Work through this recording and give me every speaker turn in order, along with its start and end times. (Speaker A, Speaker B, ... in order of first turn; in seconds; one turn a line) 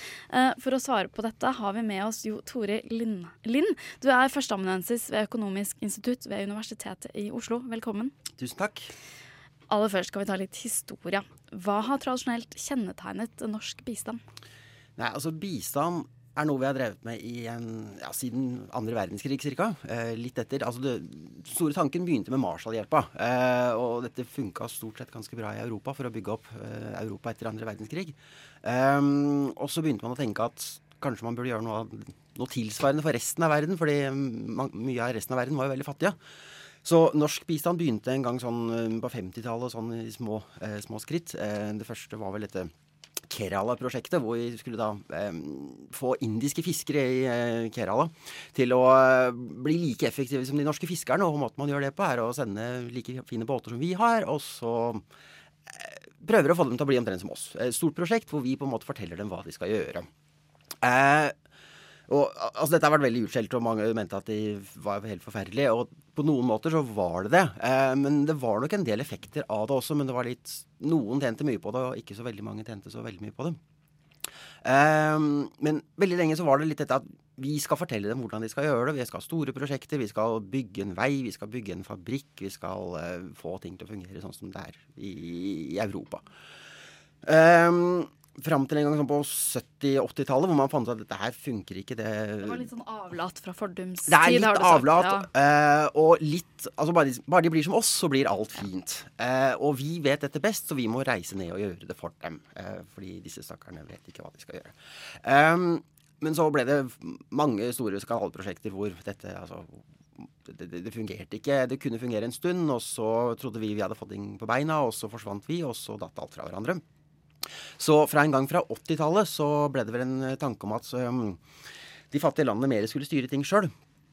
Speaker A: 0.3-8.1
Speaker B: 8.3-8.9
Speaker A: 9.7-14.2
Speaker B: 15.0-36.2
Speaker B: 36.8-42.7
Speaker B: 43.2-55.0
Speaker B: 55.7-60.1
Speaker B: 60.8-61.4
Speaker B: 62.1-73.6
Speaker B: 74.6-86.2
Speaker B: 87.2-92.7
Speaker A: 92.4-95.3
Speaker B: 94.1-116.8
Speaker B: 117.8-121.4
Speaker B: 122.1-123.7